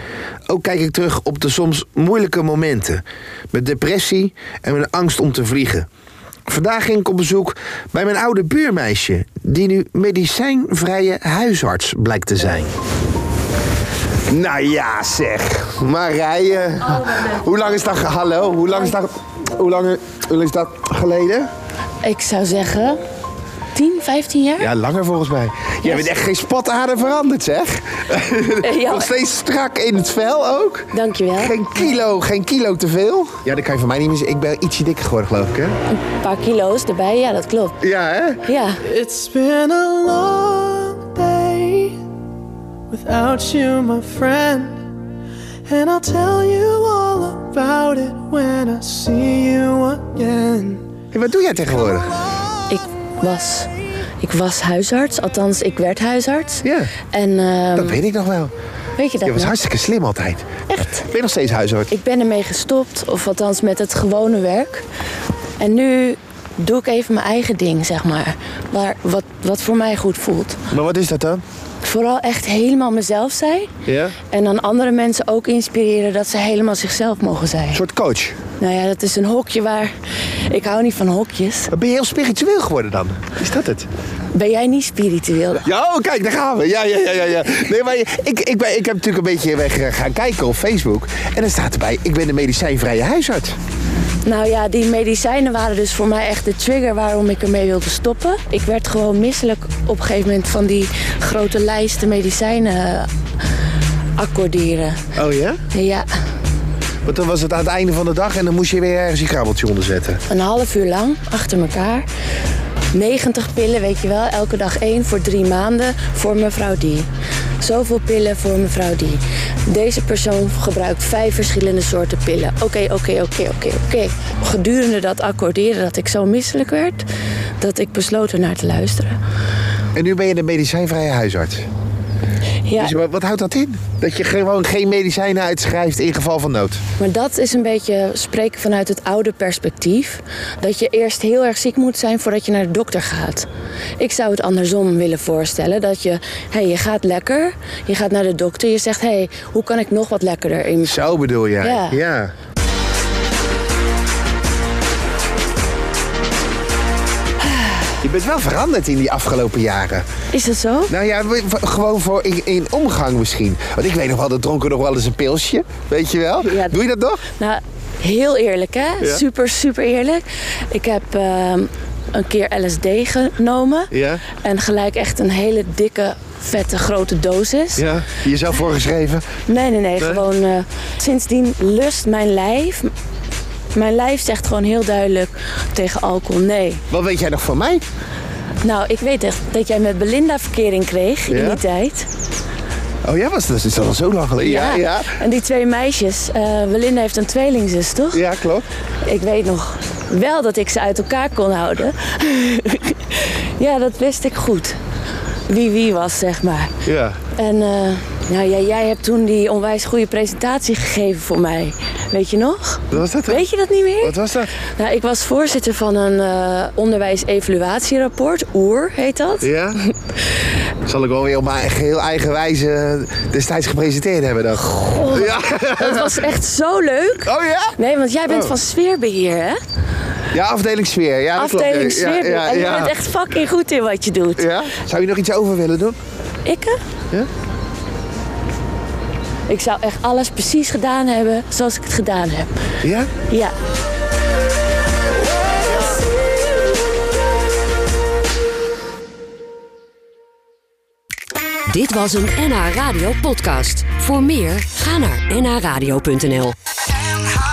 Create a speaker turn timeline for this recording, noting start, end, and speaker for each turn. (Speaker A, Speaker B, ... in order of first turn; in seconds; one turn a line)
Speaker A: 0.5-5.9
Speaker A: 6.5-12.7
Speaker A: 14.3-21.5
Speaker B: 22.0-23.0
Speaker B: 23.7-24.7
Speaker A: 24.6-35.8
Speaker B: 25.8-26.1
Speaker B: 28.6-29.1
Speaker B: 30.9-31.9
Speaker B: 35.9-37.8
Speaker A: 37.8-38.4
Speaker B: 38.4-38.8
Speaker C: 38.8-42.0
Speaker C: 42.9-44.8
Speaker C: 45.7-50.8
Speaker A: 51.1-52.2
Speaker B: 52.7-58.0
Speaker A: 56.6-56.9
Speaker A: 57.8-58.5
Speaker B: 59.0-59.6
Speaker A: 59.2-61.9
Speaker B: 61.9-64.8
Speaker B: 65.6-70.6
Speaker A: 70.7-71.4
Speaker B: 71.8-73.7
Speaker A: 73.9-74.2
Speaker B: 74.3-77.8
Speaker A: 77.7-78.4
Speaker B: 78.6-79.9
Speaker B: 80.5-81.7
Speaker A: 81.7-83.9
Speaker B: 84.3-85.7
Speaker A: 85.6-93.6
Speaker B: 94.2-103.1
Speaker B: 104.2-105.0
Speaker A: 105.2-105.6
Speaker B: 105.7-106.1
Speaker A: 107.0-110.2
Speaker B: 110.3-112.1
Speaker B: 112.9-117.1
Speaker B: 117.6-127.1
Speaker B: 127.6-129.2
Speaker A: 129.9-131.7
Speaker B: 132.7-132.9
Speaker A: 132.8-136.8
Speaker B: 137.0-143.5
Speaker B: 144.0-151.0
Speaker A: 150.8-152.3
Speaker B: 151.6-152.0
Speaker A: 158.0-160.1
Speaker B: 160.3-160.9
Speaker A: 160.9-167.2
Speaker B: 166.4-166.8
Speaker B: 167.3-177.9
Speaker A: 173.9-174.2
Speaker A: 177.8-179.3
Speaker B: 179.5-182.9
Speaker A: 180.0-180.2
Speaker B: 183.7-186.8
Speaker A: 186.9-187.8
Speaker B: 188.6-192.1
Speaker A: 191.3-191.6
Speaker A: 193.0-195.2
Speaker B: 194.4-198.2
Speaker A: 198.1-198.7
Speaker B: 199.1-204.8
Speaker B: 205.5-206.7
Speaker A: 206.8-207.2
Speaker B: 207.3-219.5
Speaker A: 212.9-213.5
Speaker A: 214.0-214.5
Speaker A: 219.4-219.8
Speaker A: 220.8-226.2
Speaker B: 224.6-229.6
Speaker A: 227.2-228.6
Speaker A: 230.3-232.9
Speaker B: 231.4-234.5
Speaker A: 234.4-236.0
Speaker B: 236.4-236.8
Speaker B: 239.5-242.5
Speaker A: 242.8-243.1
Speaker B: 243.3-243.5
Speaker D: 251.7-256.6